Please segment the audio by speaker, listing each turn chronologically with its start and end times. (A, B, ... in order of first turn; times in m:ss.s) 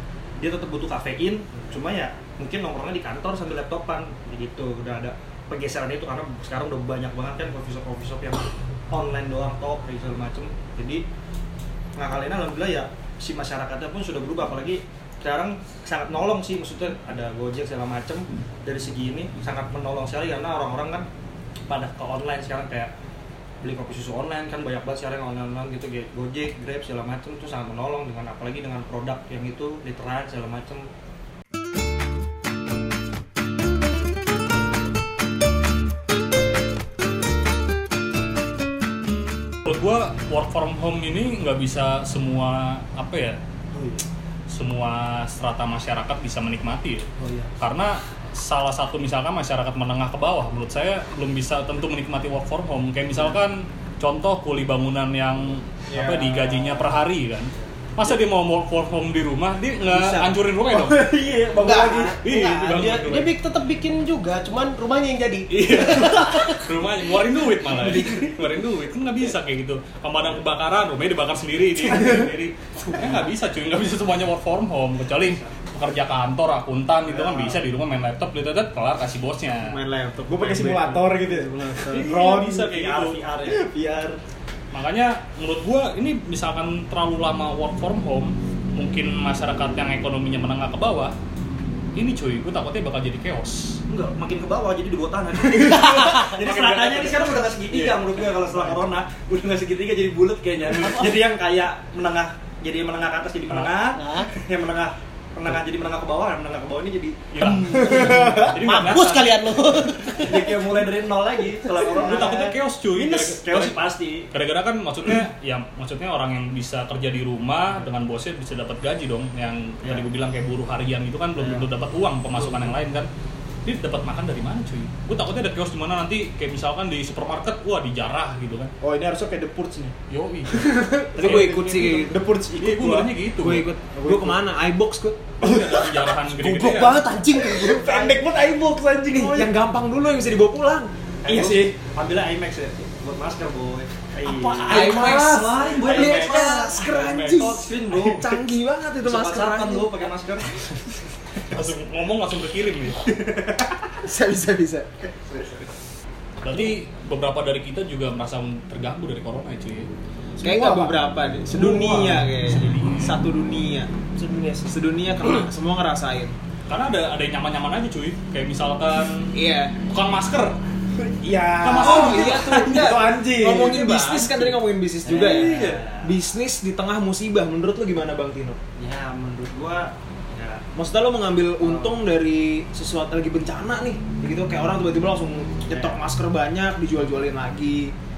0:00.4-0:11.0 A
0:12.0-0:21.1 A
0:21.7-0:22.9 A
0:23.6-0:30.9 A
0:39.6-0:43.4 B
0:43.7-0:44.0 A
0:44.5-0:47.0 B
0:47.2-0:47.5 A
0:47.6-1:01.1 B
0:55.9-0:56.9 C
1:00.7-1:02.2 C
1:01.6-1:06.7 D
1:02.2-1:03.3 B
1:05.5-1:19.8 B
1:17.1-1:17.6 A
1:19.6-1:22.0 E
1:20.3-1:22.7 C
1:20.6-1:21.0 B
1:21.8-1:23.2 B
1:22.0-1:23.7 A
1:23.4-1:24.2 C
1:24.7-1:31.1 B
1:31.9-1:33.8 B
1:33.9-1:48.5 A
1:35.6-1:36.3 D
1:35.7-1:38.8 B
1:43.9-1:44.3 D
1:47.3-1:49.9 B
1:47.8-1:50.6 D
1:48.0-1:48.4 C
1:50.2-1:54.3 A
1:51.9-2:03.1 B
2:01.4-2:01.6 A
2:02.4-2:02.7 A
2:03.6-2:08.7 B
2:08.8-2:09.9 C
2:10.1-2:10.6 B
2:10.7-2:13.1 C
2:11.1-2:12.2 E
2:11.2-2:13.7 B
2:13.4-2:15.2 E
2:13.9-2:14.4 C
2:15.4-2:17.0 B
2:15.4-2:15.9 C
2:16.4-2:18.2 D
2:16.6-2:19.5 C
2:19.1-2:20.9 E
2:21.2-2:28.4 A
2:21.2-2:21.7 C
2:24.4-2:25.8 C
2:24.6-2:30.0 E
2:24.8-2:25.2 D
2:25.9-2:27.5 B
2:29.0-2:30.6 A
2:31.5-2:33.0 B
2:33.2-2:33.7 A
2:34.0-2:34.9 E
2:36.4-2:39.9 B
2:40.4-2:41.0 C
2:40.4-2:43.9 E
2:41.5-2:43.2 B
2:41.6-2:42.1 C
2:44.2-2:44.6 D
2:44.6-2:46.3 E
2:46.7-2:50.6 B
2:49.3-2:49.8 E
2:51.0-2:54.5 C
2:51.6-2:53.0 B
2:51.8-2:58.6 E
2:55.0-2:56.2 A
2:55.2-2:55.8 C
2:58.8-3:00.6 A
3:00.7-3:07.9 E
3:01.6-3:02.0 A
3:05.7-3:06.0 A